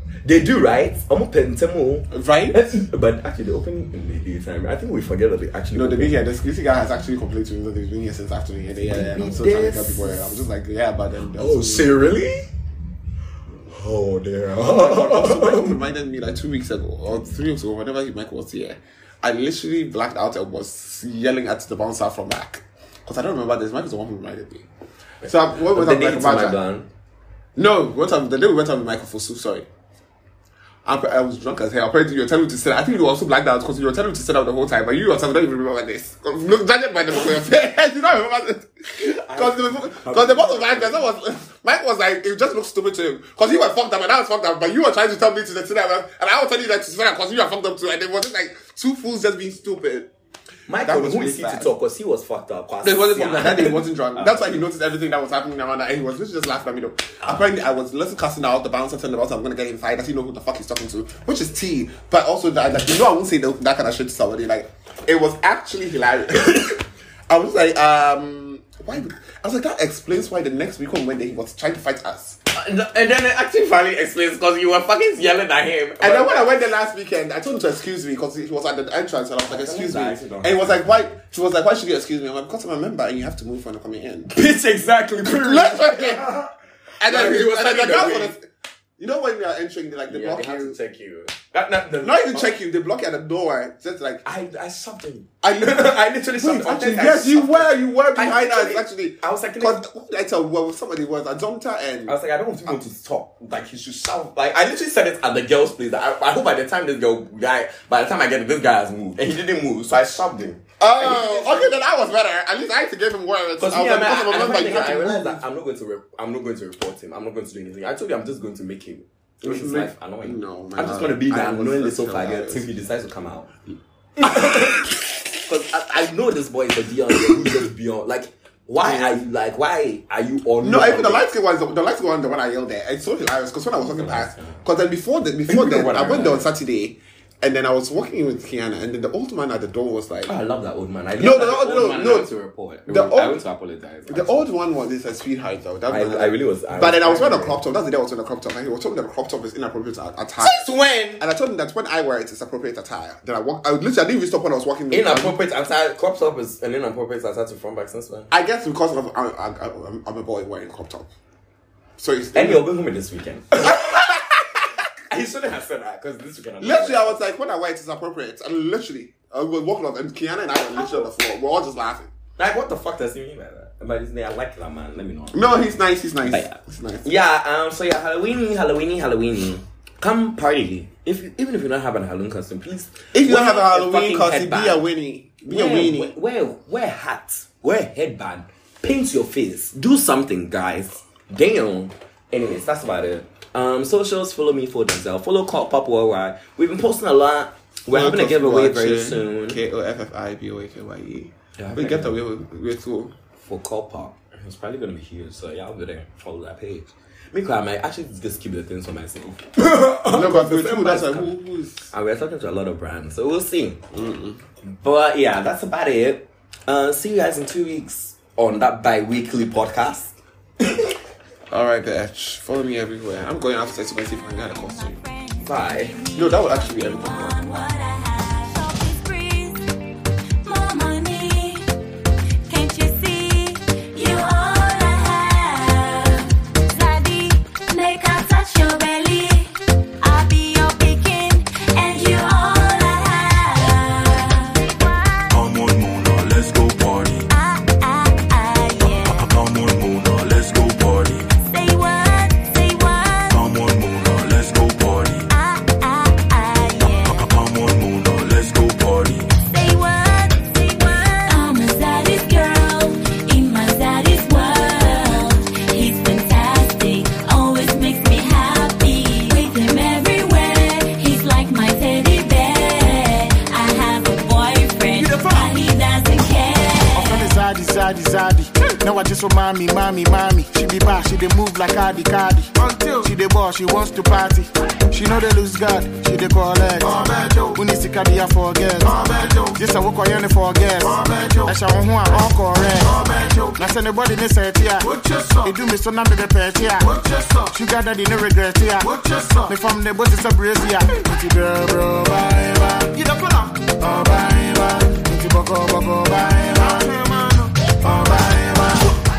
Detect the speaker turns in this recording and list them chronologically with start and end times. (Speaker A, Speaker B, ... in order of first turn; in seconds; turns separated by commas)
Speaker A: 0.2-6.2, Speaker B: 2.1-2.6, Speaker B: 5.7-11.9, Speaker A: 8.9-10.3, Speaker A: 11.4-12.4, Speaker A: 13.7-15.8, Speaker B: 14.6-24.7, Speaker B: 25.2-26.6, Speaker A: 25.5-26.9, Speaker B: 27.6-29.7, Speaker B: 30.9-50.1, Speaker A: 39.0-41.1, Speaker A: 50.7-54.4, Speaker B: 50.8-51.7, Speaker B: 52.8-72.4, Speaker A: 72.5-76.5, Speaker B: 76.0-84.3, Speaker A: 79.5-80.8, Speaker A: 84.3-86.5, Speaker B: 85.2-86.3, Speaker A: 87.0-88.3, Speaker B: 87.0-88.5, Speaker B: 89.0-90.8, Speaker A: 90.1-92.5, Speaker B: 92.0-94.2, Speaker A: 94.2-99.8, Speaker B: 95.4-102.2, Speaker A: 102.1-111.7, Speaker B: 110.8-115.4, Speaker A: 113.6-123.5, Speaker B: 119.4-122.7, Speaker A: 124.2-131.2, Speaker B: 124.3-124.6, Speaker B: 128.8-129.2, Speaker B: 130.6-140.3, Speaker A: 133.8-134.6, Speaker A: 135.5-136.5, Speaker A: 140.3-144.5, Speaker B: 141.2-142.3, Speaker B: 142.9-143.4, Speaker B: 144.1-155.4, Speaker A: 145.9-147.6, Speaker A: 150.4-151.2, Speaker A: 154.9-158.3, Speaker B: 158.3-161.1, Speaker B: 162.0-162.7, Speaker A: 162.3-167.3, Speaker B: 166.6-172.1, Speaker A: 170.7-171.1, Speaker A: 172.4-175.6, Speaker B: 175.3-177.1, Speaker A: 176.2-184.8, Speaker B: 183.1-186.1, Speaker A: 185.5-199.6, Speaker B: 197.9-203.1, Speaker A: 201.6-202.2, Speaker A: 203.4-211.4, Speaker B: 210.1-211.9, Speaker A: 211.9-213.8, Speaker B: 213.9-214.4, Speaker A: 214.6-220.9, Speaker B: 221.5-225.0, Speaker C: 224.4-229.6, Speaker A: 225.4-225.9, Speaker B: 226.1-227.6, Speaker C: 230.4-231.7, Speaker C: 232.5-245.4, Speaker D: 245.3-247.3, Speaker C: 247.3-249.3, Speaker D: 248.9-251.4, Speaker C: 251.5-253.4, Speaker D: 253.3-255.3, Speaker C: 255.3-257.3, Speaker D: 256.9-259.4, Speaker C: 259.4-277.3, Speaker E: 276.9-308.9